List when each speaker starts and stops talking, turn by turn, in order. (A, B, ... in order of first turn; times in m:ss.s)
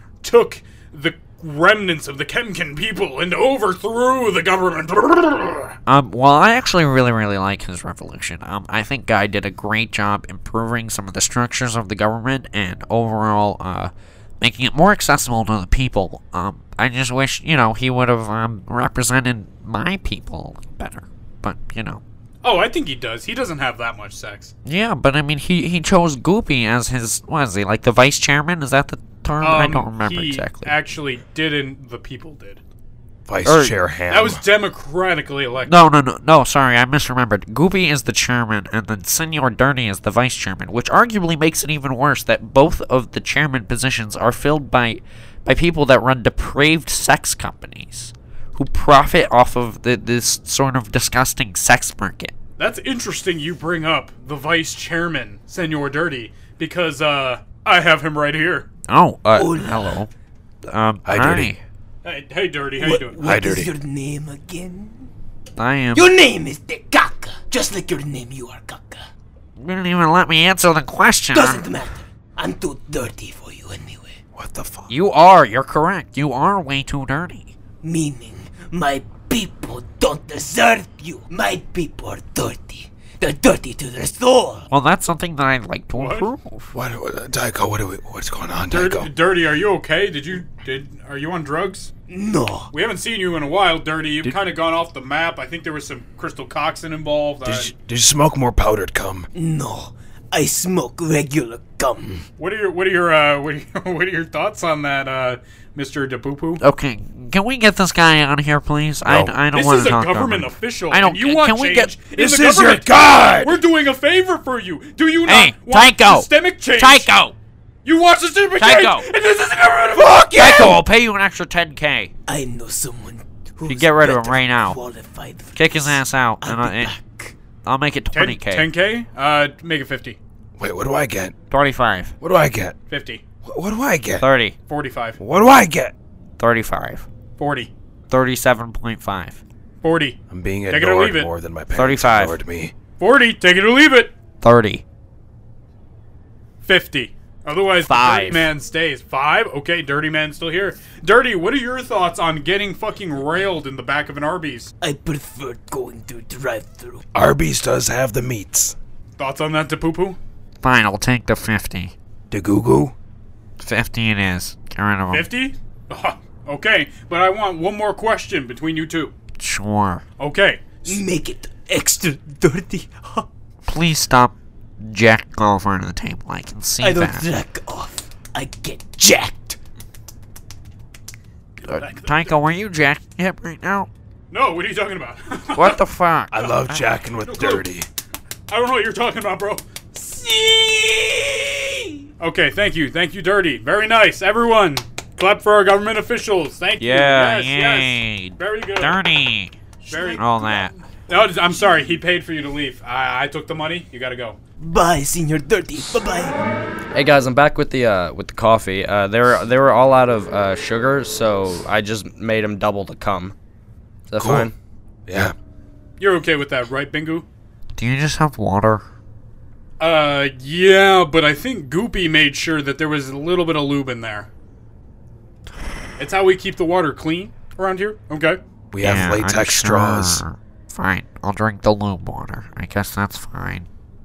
0:00.2-0:05.8 A
0:05.9-0:22.0 B
0:22.4-0:24.5 A
0:24.6-0:30.7 B
0:29.4-0:32.6 A
0:33.3-0:34.4 C
0:33.4-0:33.8 B
0:34.1-0:35.8 A
0:35.7-0:52.4 B
0:52.6-0:58.7 A
0:58.9-1:00.1 B
0:59.3-1:00.0 D
1:00.7-1:01.6 B
1:01.1-1:01.5 C
1:02.0-1:03.4 A
1:02.8-1:05.1 D
1:03.2-1:03.7 C
1:05.6-1:06.1 B
1:06.0-1:09.0 D
1:09.6-1:11.7 B
1:11.3-1:14.1 D
1:14.4-1:14.9 C
1:14.9-1:17.5 B
1:17.8-1:24.6 D
1:24.7-1:26.8 B
1:25.9-1:26.3 A
1:26.7-1:29.1 C
1:28.7-1:31.9 A
1:32.1-1:32.7 D
1:32.7-1:37.7 A
1:37.4-1:39.3 C
1:39.4-1:42.1 D
1:42.4-1:46.6 A
1:46.6-1:52.0 B
1:49.0-1:49.4 C
1:49.5-1:57.2 A
1:52.2-1:53.6 C
1:55.2-1:57.4 B
1:57.8-2:00.2 A
1:58.6-1:59.1 B
2:00.0-2:00.7 C
2:00.4-2:02.1 B
2:02.3-2:03.8 D
2:03.6-2:04.8 B
2:04.6-2:05.9 D
2:05.6-2:07.0 B
2:06.4-2:07.3 D
2:07.6-2:08.7 B
2:08.1-2:10.2 A
2:10.6-2:11.3 C
2:11.5-2:12.1 B
2:12.2-2:12.8 C
2:12.9-2:13.2 A
2:13.4-2:14.3 C
2:14.2-2:14.6 B
2:14.7-2:15.2 A
2:15.2-2:16.0 C
2:16.4-2:17.1 B
2:17.4-2:17.7 A
2:18.1-2:19.4 B
2:19.8-2:21.3 A
2:20.3-2:22.8 C
2:21.7-2:22.4 B
2:23.0-2:24.1 A
2:24.4-2:24.8 B
2:26.6-2:34.7 A
2:27.9-2:28.5 B
2:34.8-2:37.0 D
2:37.1-2:38.8 C
2:39.2-2:40.2 A
2:40.6-2:41.9 B
2:42.3-2:43.0 C
2:43.6-2:45.3 B
2:45.1-2:49.1 A
2:49.4-2:50.0 B
2:50.2-2:50.7 A
2:50.9-2:53.2 D
2:53.7-2:57.3 B
2:56.8-2:59.6 D
3:01.6-3:02.3 A
3:01.6-3:03.9 B
3:04.3-3:05.8 A
3:05.5-3:06.8 B
3:06.3-3:07.9 C
3:07.2-3:07.6 A
3:08.5-3:19.0 A
3:16.8-3:20.8 B
3:19.8-3:24.4 A
3:24.6-3:26.4 D
3:26.9-3:33.4 E
3:34.1-3:34.6 E
3:34.2-3:34.5 C
3:35.1-3:35.4 C
3:36.0-3:37.3 A
3:37.8-3:38.9 B
3:39.8-3:44.3 A
3:46.0-3:48.4 A
3:48.7-3:50.2 C
3:48.8-3:53.7 B